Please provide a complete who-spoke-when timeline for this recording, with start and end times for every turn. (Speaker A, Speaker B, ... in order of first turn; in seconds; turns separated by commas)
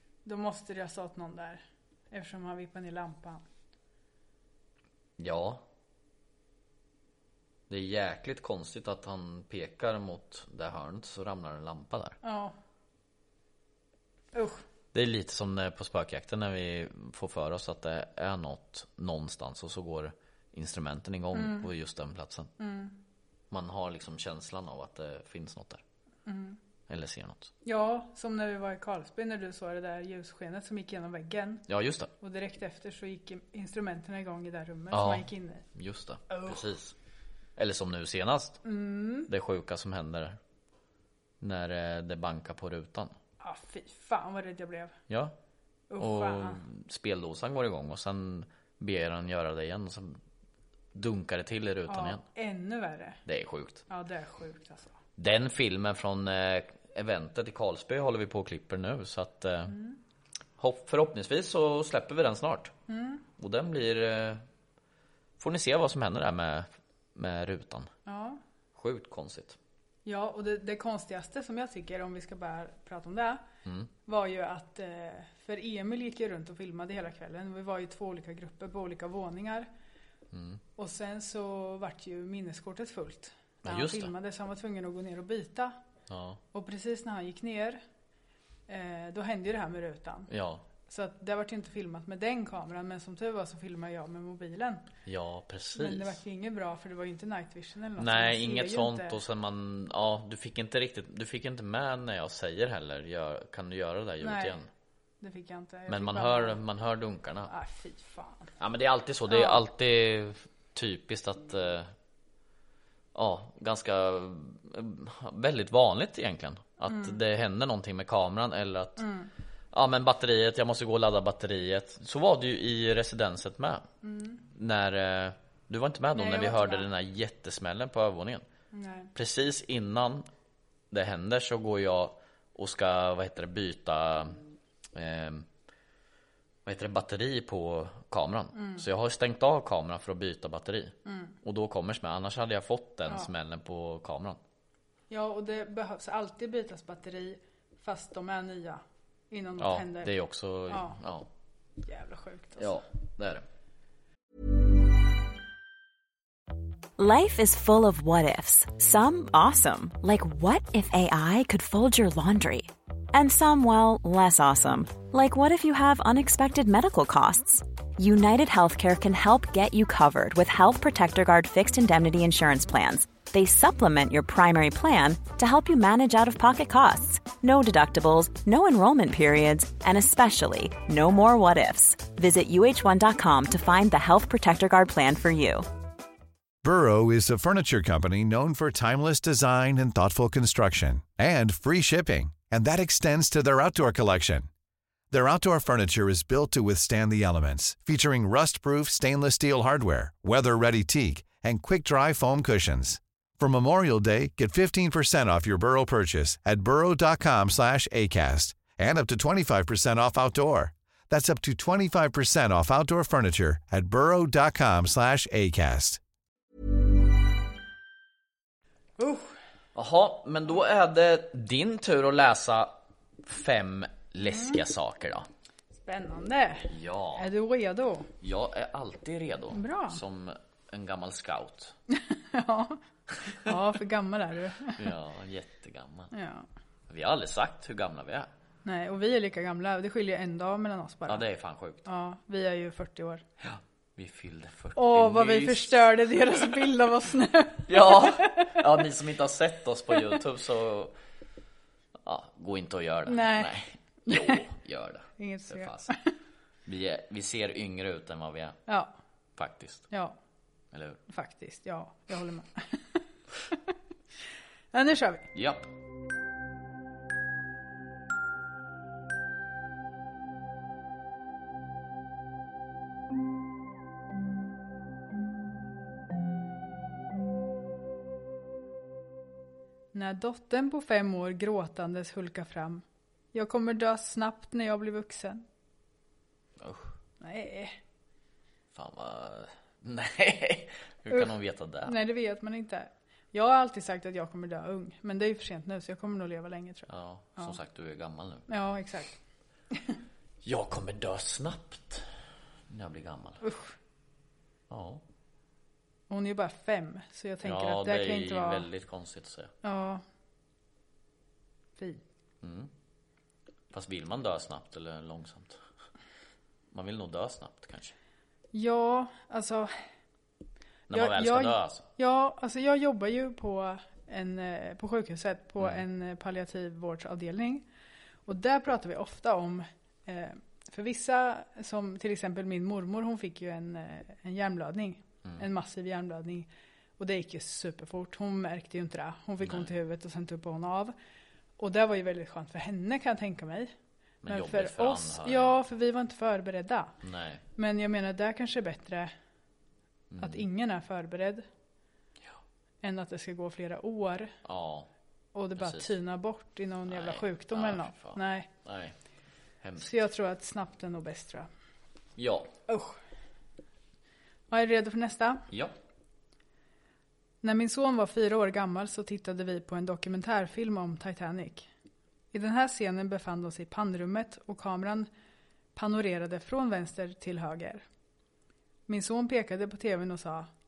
Speaker A: 0.2-3.4, Speaker B: 5.2-5.6, Speaker B: 7.7-12.2, Speaker A: 12.2-12.6, Speaker A: 14.3-14.6, Speaker B: 14.9-22.5, Speaker A: 21.3-21.7, Speaker A: 22.6-23.0, Speaker B: 23.5-25.8, Speaker A: 26.3-26.6, Speaker B: 26.9-27.5, Speaker A: 27.6-31.6, Speaker B: 31.7-32.1, Speaker A: 32.2-35.6, Speaker B: 34.9-36.9, Speaker A: 36.3-36.6, Speaker B: 37.6-38.6, Speaker A: 38.6-39.3, Speaker B: 39.3-40.4, Speaker B: 41.4-43.1, Speaker A: 43.4-45.0, Speaker B: 45.1-45.3, Speaker A: 45.9-46.6, Speaker B: 46.0-50.2, Speaker B: 51.0-52.2, Speaker A: 51.9-53.2, Speaker B: 53.3-53.8, Speaker A: 53.9-55.0, Speaker B: 55.2-59.8, Speaker A: 59.7-60.0, Speaker B: 60.6-62.7, Speaker A: 62.9-63.2, Speaker B: 63.4-64.4, Speaker B: 65.4-67.9, Speaker A: 68.1-68.4, Speaker B: 68.8-69.6, Speaker A: 70.0-73.4, Speaker B: 73.7-73.9, Speaker A: 74.1-79.7, Speaker B: 80.3-80.6, Speaker A: 80.8-85.8, Speaker B: 83.6-84.1, Speaker B: 86.1-86.4, Speaker A: 86.5-87.8, Speaker A: 88.7-90.3, Speaker B: 90.3-90.6, Speaker A: 90.9-94.9, Speaker B: 95.1-96.2, Speaker A: 95.8-99.2, Speaker B: 98.0-104.7, Speaker A: 104.2-104.6, Speaker A: 105.2-106.6, Speaker B: 105.9-107.5, Speaker A: 107.5-108.5, Speaker B: 108.6-111.9, Speaker A: 109.3-109.6, Speaker B: 113.2-119.0, Speaker A: 116.9-117.2, Speaker A: 119.0-119.3, Speaker B: 119.7-123.8, Speaker A: 124.0-124.4, Speaker B: 124.5-128.4, Speaker A: 126.2-126.9, Speaker A: 128.7-129.1, Speaker B: 129.2-130.3, Speaker B: 130.9-134.4, Speaker B: 134.9-135.5, Speaker B: 136.7-144.4, Speaker A: 138.6-138.8, Speaker A: 141.1-141.4, Speaker A: 145.1-150.1, Speaker B: 149.6-151.3, Speaker A: 150.7-151.0, Speaker A: 151.8-152.8, Speaker B: 152.6-153.4, Speaker C: 157.0-185.7, Speaker D: 186.6-194.5, Speaker D: 195.1-216.0, Speaker A: 219.0-219.3, Speaker B: 219.8-222.7, Speaker B: 223.2-225.3, Speaker A: 224.2-224.6, Speaker A: 225.7-228.1, Speaker B: 226.7-227.3, Speaker B: 228.2-231.8, Speaker A: 229.5-230.0, Speaker A: 231.9-234.8, Speaker B: 234.8-236.1, Speaker A: 236.1-236.5, Speaker B: 236.9-238.3, Speaker A: 238.7-241.2, Speaker B: 241.1-241.8, Speaker A: 241.8-243.2, Speaker B: 243.4-246.6, Speaker A: 244.8-248.6, Speaker B: 247.7-250.9, Speaker B: 252.0-255.9, Speaker A: 253.1-253.5, Speaker A: 254.1-254.4, Speaker A: 255.2-256.1, Speaker B: 256.7-258.6, Speaker A: 258.7-258.9, Speaker B: 259.4-259.9, Speaker A: 259.9-260.2, Speaker B: 260.7-261.0, Speaker A: 261.1-262.8, Speaker A: 264.7-265.3, Speaker B: 265.3-265.7, Speaker A: 279.9-285.4, Speaker B: 286.6-286.9, Speaker A: 287.2-287.8, Speaker B: 288.7-292.0, Speaker A: 291.9-297.6, Speaker B: 296.9-298.4, Speaker A: 298.5-299.2, Speaker A: 299.7-300.0, Speaker B: 300.4-302.1, Speaker B: 302.7-303.4, Speaker A: 303.4-303.7, Speaker B: 304.7-305.0, Speaker A: 306.1-308.7, Speaker B: 307.4-309.5, Speaker A: 309.6-310.0, Speaker B: 312.4-312.7, Speaker B: 313.7-315.6, Speaker B: 316.7-317.9, Speaker A: 318.5-319.7, Speaker B: 320.9-321.9, Speaker A: 320.9-327.7, Speaker A: 328.3-336.5, Speaker A: 337.0-340.9, Speaker B: 339.4-339.7, Speaker A: 341.6-343.7, Speaker B: 344.2-345.6, Speaker A: 344.3-346.9, Speaker B: 347.0-347.4, Speaker A: 347.6-349.1, Speaker B: 350.1-350.4, Speaker A: 350.2-351.5, Speaker A: 352.8-354.3, Speaker B: 354.4-354.9, Speaker A: 355.4-358.5, Speaker B: 355.6-355.9, Speaker B: 356.9-358.9, Speaker B: 359.6-359.9, Speaker A: 359.8-361.5, Speaker B: 362.2-362.5, Speaker A: 362.7-363.0, Speaker A: 364.5-365.5, Speaker B: 365.5-365.8, Speaker A: 367.4-371.7, Speaker A: 372.3-375.1, Speaker A: 375.8-377.8, Speaker A: 378.9-380.5